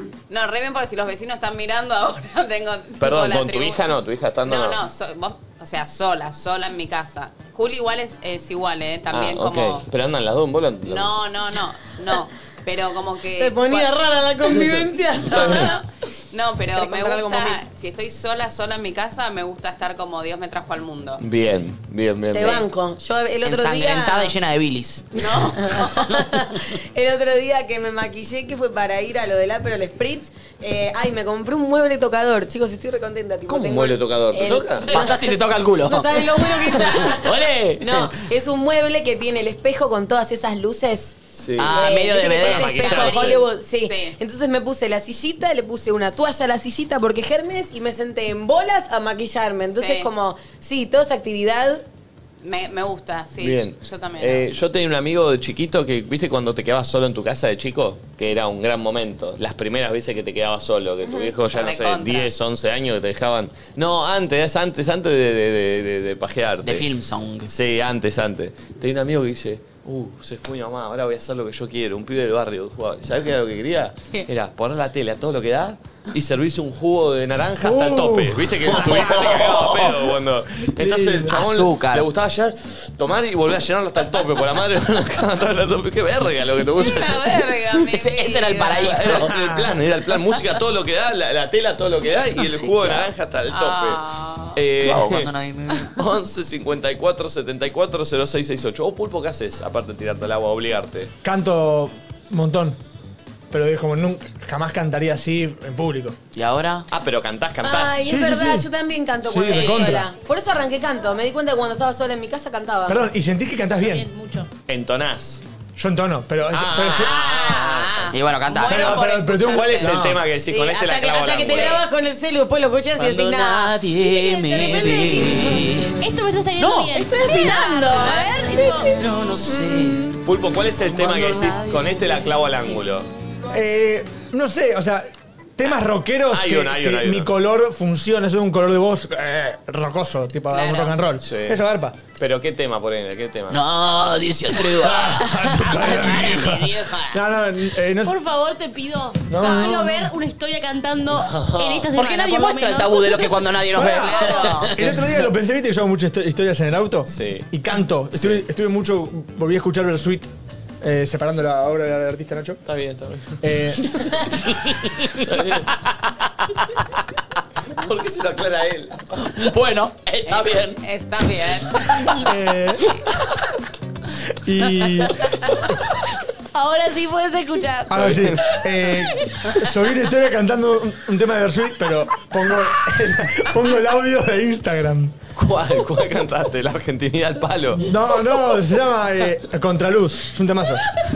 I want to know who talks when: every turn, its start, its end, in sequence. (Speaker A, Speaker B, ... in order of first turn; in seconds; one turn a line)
Speaker A: 0.3-3.9
Speaker B: 3.0-4.8
Speaker A: 4.4-9.8
Speaker B: 9.1-11.1
Speaker A: 10.8-13.9
Speaker C: 13.3-15.7
Speaker A: 15.3-21.2
Speaker B: 15.3-15.7
Speaker C: 16.8-17.6
Speaker B: 21.2-22.6
Speaker C: 22.3-24.3
Speaker D: 23.4-25.2
Speaker A: 25.1-26.2
Speaker C: 25.6-41.1
Speaker B: 33.5-35.1
Speaker D: 34.9-38.2
Speaker B: 41.3-43.4
Speaker D: 41.6-43.1
Speaker C: 41.7-51.8
Speaker A: 42.8-44.2
Speaker A: 49.7-50.1
Speaker A: 52.4-54.5
Speaker B: 53.4-66.9
Speaker A: 61.5-62.3
Speaker D: 66.6-67.5
Speaker B: 67.5-87.3
Speaker E: 77.6-79.3
Speaker D: 78.7-80.0
Speaker E: 80.8-81.3
Speaker D: 81.2-82.1
Speaker A: 86.8-89.1
Speaker D: 87.9-89.4
Speaker B: 88.7-94.0
Speaker D: 92.4-93.1
Speaker A: 93.5-94.6
Speaker B: 94.5-95.3
Speaker D: 94.8-95.9
Speaker B: 96.0-101.1
Speaker E: 101.2-102.8
Speaker E: 103.5-106.2
Speaker D: 106.3-106.8
Speaker B: 106.9-108.2
Speaker C: 107.6-113.1
Speaker E: 108.0-108.7
Speaker E: 109.2-110.1
Speaker E: 112.9-114.1
Speaker F: 113.8-114.5
Speaker B: 114.7-115.4
Speaker E: 115.8-117.2
Speaker B: 116.5-118.1
Speaker A: 116.9-119.9
Speaker D: 118.1-119.0
Speaker E: 118.7-120.2
Speaker B: 119.4-121.8
Speaker C: 120.5-123.7
Speaker A: 121.5-121.8
Speaker D: 123.0-125.9
Speaker F: 124.1-129.0
Speaker D: 126.6-127.5
Speaker C: 127.2-128.3
Speaker D: 128.9-130.2
Speaker B: 130.2-133.1
Speaker D: 131.0-131.9
Speaker E: 133.5-142.0
Speaker B: 136.3-137.3
Speaker A: 140.5-141.0
Speaker B: 141.2-143.6
Speaker D: 143.5-147.2
Speaker E: 144.8-148.2
Speaker F: 148.0-154.7
Speaker E: 149.3-150.1
Speaker B: 151.1-151.9
Speaker D: 151.9-155.0
Speaker E: 153.7-160.3
Speaker A: 154.2-154.6
Speaker B: 157.1-157.5
Speaker B: 158.1-158.4
Speaker E: 160.8-162.6
Speaker B: 162.6-163.4
Speaker E: 163.4-163.9
Speaker D: 164.5-165.0
Speaker B: 165.2-165.7
Speaker B: 167.8-169.3
Speaker D: 169.2-170.8
Speaker A: 170.2-172.3
Speaker E: 172.1-172.8
Speaker E: 174.4-175.4
Speaker F: 176.5-178.0
Speaker E: 177.9-185.1
Speaker B: 177.9-178.4
Speaker B: 185.3-187.9
Speaker E: 187.7-190.8